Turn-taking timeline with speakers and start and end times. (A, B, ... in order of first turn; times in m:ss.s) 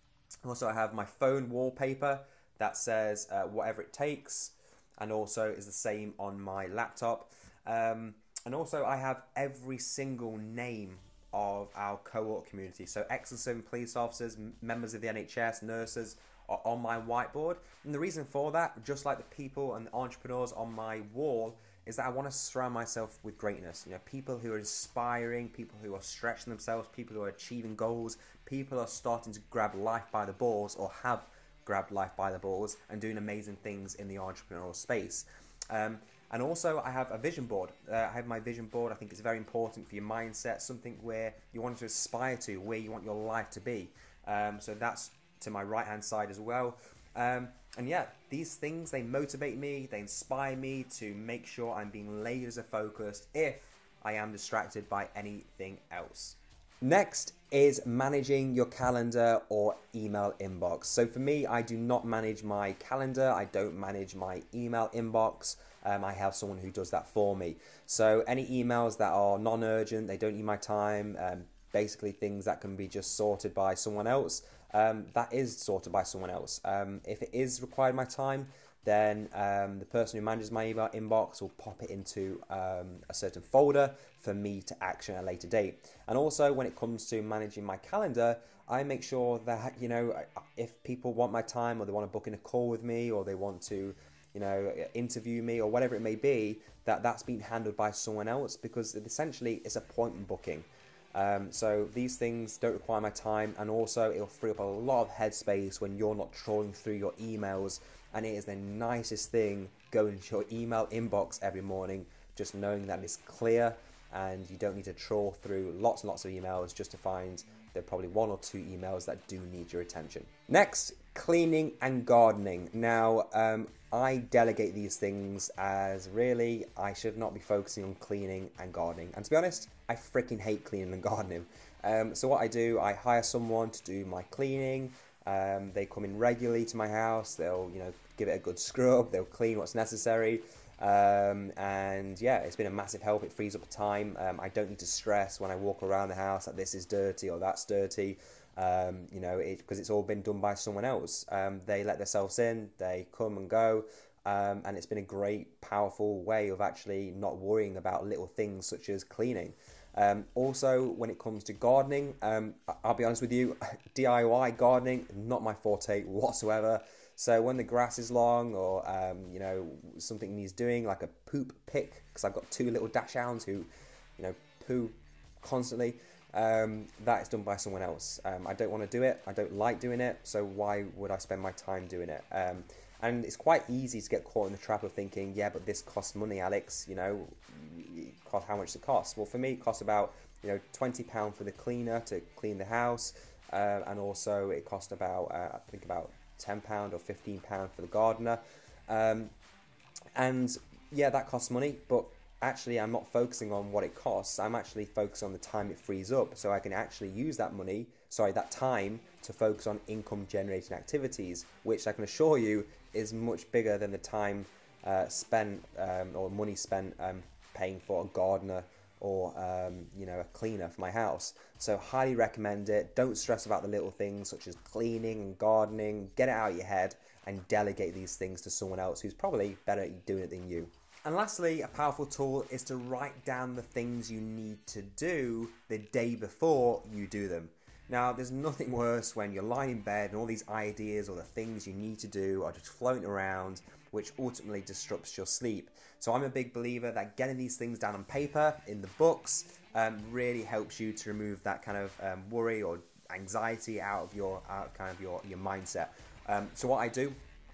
0:00.4-3:19.3 A
3:20.2-4:17.2 A